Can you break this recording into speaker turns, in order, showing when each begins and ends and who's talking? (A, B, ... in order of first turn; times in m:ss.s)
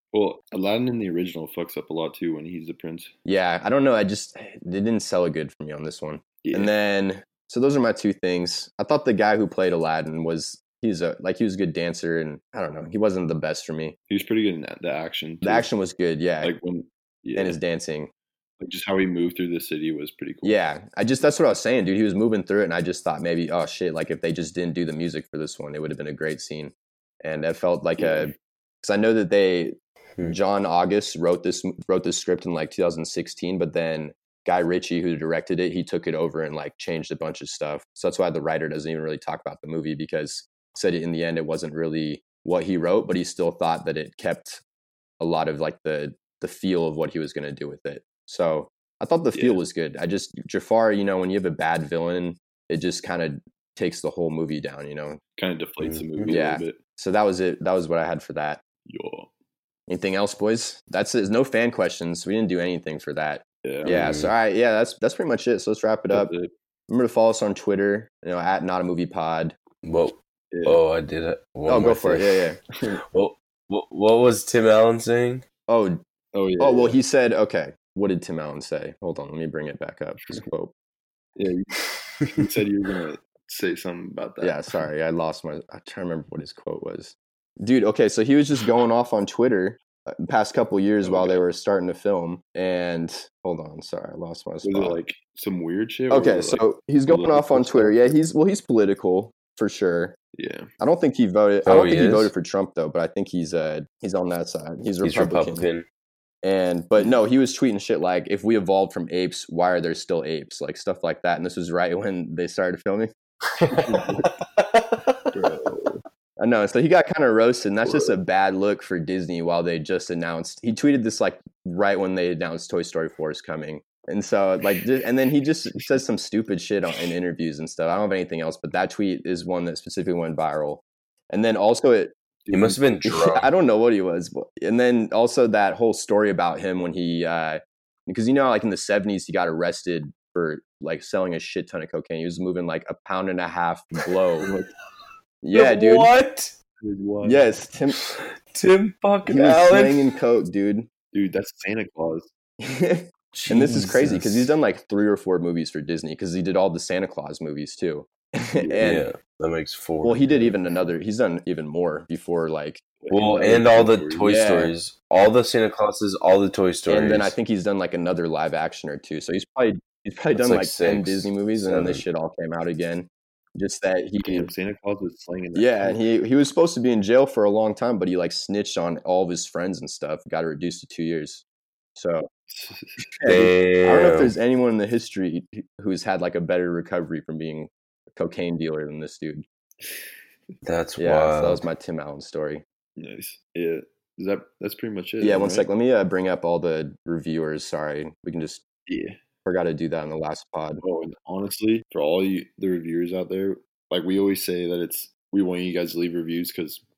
0:00.1-0:03.1 A
0:03.2-0:13.9 B
0:06.4-0:06.7 A
0:14.1-0:15.7 A
0:15.4-0:16.5 B
0:16.4-0:17.6 A
0:17.4-0:18.1 B
0:18.6-0:20.6 A
0:20.4-0:44.6 B
0:28.0-0:28.3 A
0:45.2-0:55.2 B
0:49.3-0:49.6 A
0:55.4-0:56.8 A
0:55.8-0:56.3 C
0:56.3-0:58.6 B
0:58.8-0:59.3 A
0:59.9-1:06.3 B
1:03.6-1:04.0 A
1:03.8-1:04.3 C
1:06.1-1:06.5 A
1:06.9-1:09.6 B
1:09.8-1:12.4 C
1:10.5-1:10.8 A
1:11.7-1:12.6 B
1:13.1-1:15.4 C
1:15.7-1:16.0 B
1:16.3-1:17.0 A
1:16.6-1:20.7 B
1:21.4-1:24.8 A
1:24.4-1:35.0 B
1:31.0-1:31.4 A
1:34.6-1:37.9 A
1:36.1-1:40.2 B
1:40.3-1:40.7 A
1:40.8-1:45.6 B
1:41.6-1:42.3 C
1:45.0-1:45.8 C
1:46.4-1:53.1 B
1:53.6-1:55.3 C
1:53.7-1:54.3 A
1:55.3-1:56.0 A
1:56.4-2:12.1 B
2:12.4-2:13.0 A
2:12.5-2:13.5 C
2:13.2-2:24.5 B
2:24.4-2:24.7 A
2:25.4-2:26.1 B
2:25.5-2:26.5 C
2:26.8-2:27.5 A
2:27.2-2:28.1 B
2:28.0-2:30.1 C
2:29.2-2:30.9 B
2:31.1-2:32.3 A
2:32.6-2:39.1 B
2:33.3-2:34.5 C
2:38.6-2:39.0 A
2:38.8-2:40.6 C
2:40.0-2:42.8 B
2:43.0-2:44.3 A
2:43.1-2:47.3 C
2:44.3-2:44.7 B
2:46.9-2:54.5 B
2:50.4-2:52.0 C
2:54.2-2:56.0 A
2:55.5-3:01.4 B
3:02.0-3:02.3 B
3:02.5-3:03.0 A
3:03.2-3:09.4 B
3:03.2-3:04.3 C
3:10.6-3:11.6 C
3:11.0-3:12.6 B
3:13.0-3:15.7 A
3:15.2-3:18.6 B
3:18.9-3:19.2 A
3:19.4-3:20.8 B
3:20.8-3:26.8 A